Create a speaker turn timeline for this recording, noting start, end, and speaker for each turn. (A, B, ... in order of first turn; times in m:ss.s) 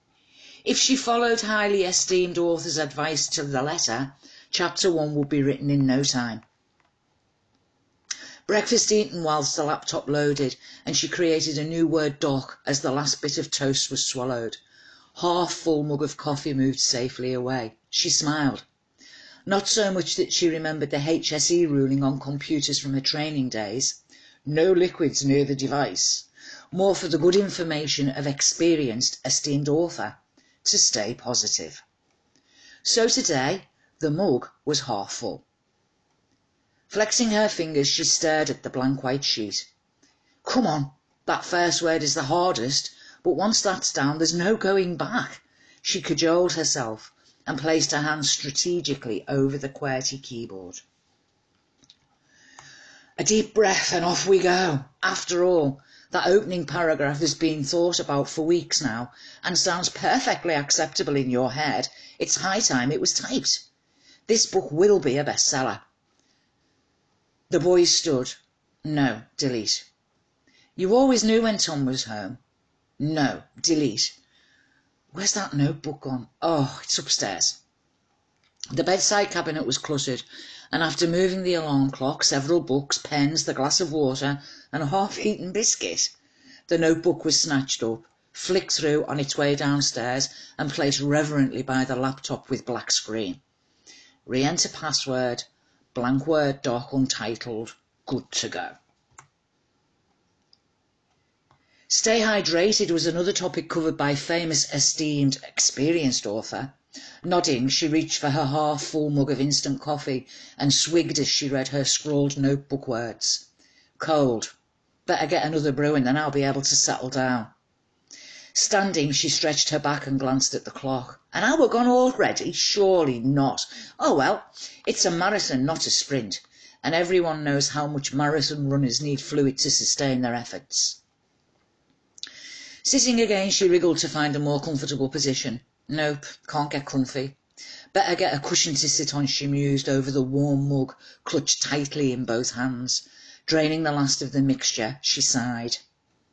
0:00.6-0:06.4 A
0:08.5-0:14.6 A
0:15.1-0:18.6 A
0:19.4-0:31.8 A
0:32.8-0:35.4 A
0:36.9-0:39.7 A
0:40.4-0:50.8 A
0:53.2-1:03.7 A
1:04.3-1:05.8 A
1:07.5-1:09.9 A
1:10.8-1:12.4 A
1:13.0-1:14.2 A
1:15.1-1:17.6 A
1:18.7-1:26.1 A
1:26.7-1:33.4 A
1:34.2-1:38.8 A
1:41.9-1:53.5 A
1:54.0-1:54.5 A
1:55.0-1:57.5 A
1:58.5-2:11.0 A
2:12.8-2:17.4 A
2:17.9-2:25.8 A